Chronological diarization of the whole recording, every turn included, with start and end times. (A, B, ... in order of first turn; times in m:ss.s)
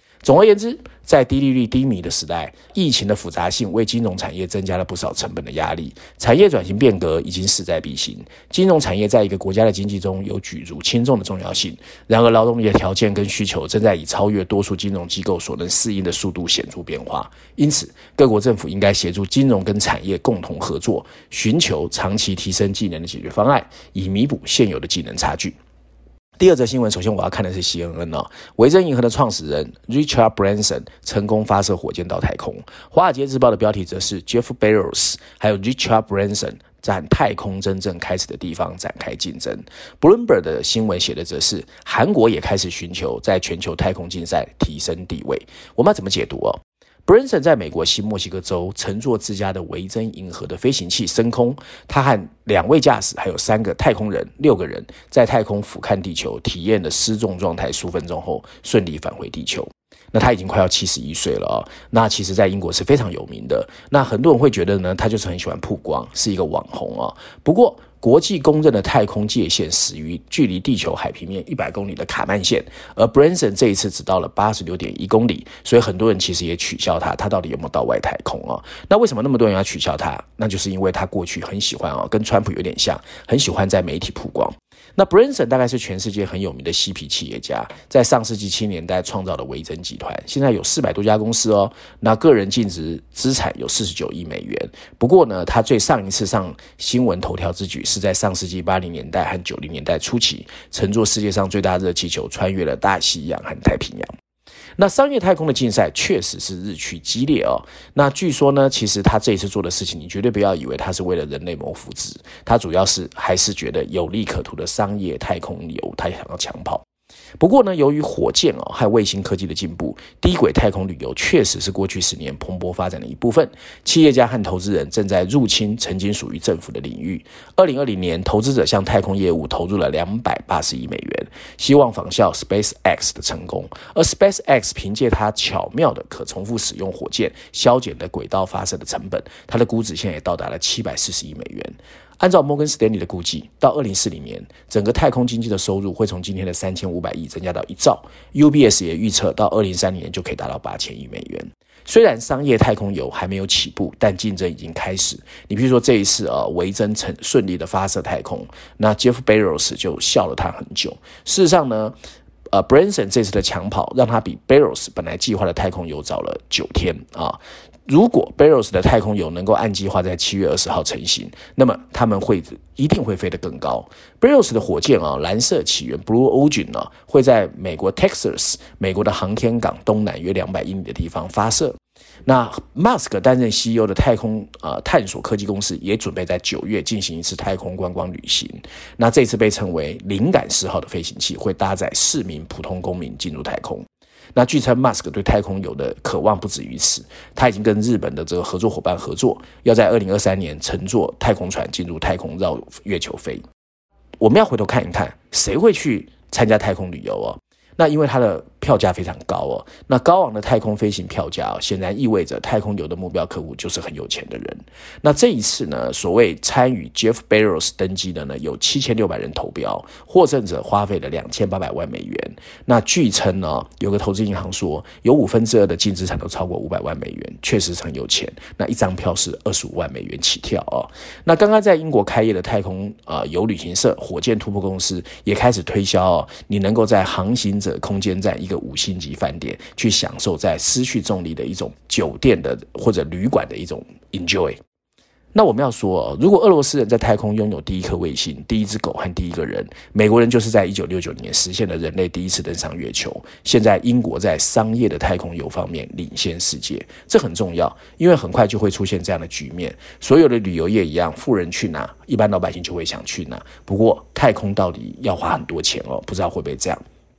0:00.2-0:25.6 A
0:26.4-1:44.1 A
1:44.8-1:56.8 A
1:57.4-2:42.0 A
2:42.5-3:23.4 A
3:24.2-4:04.6 A
4:05.3-4:26.8 A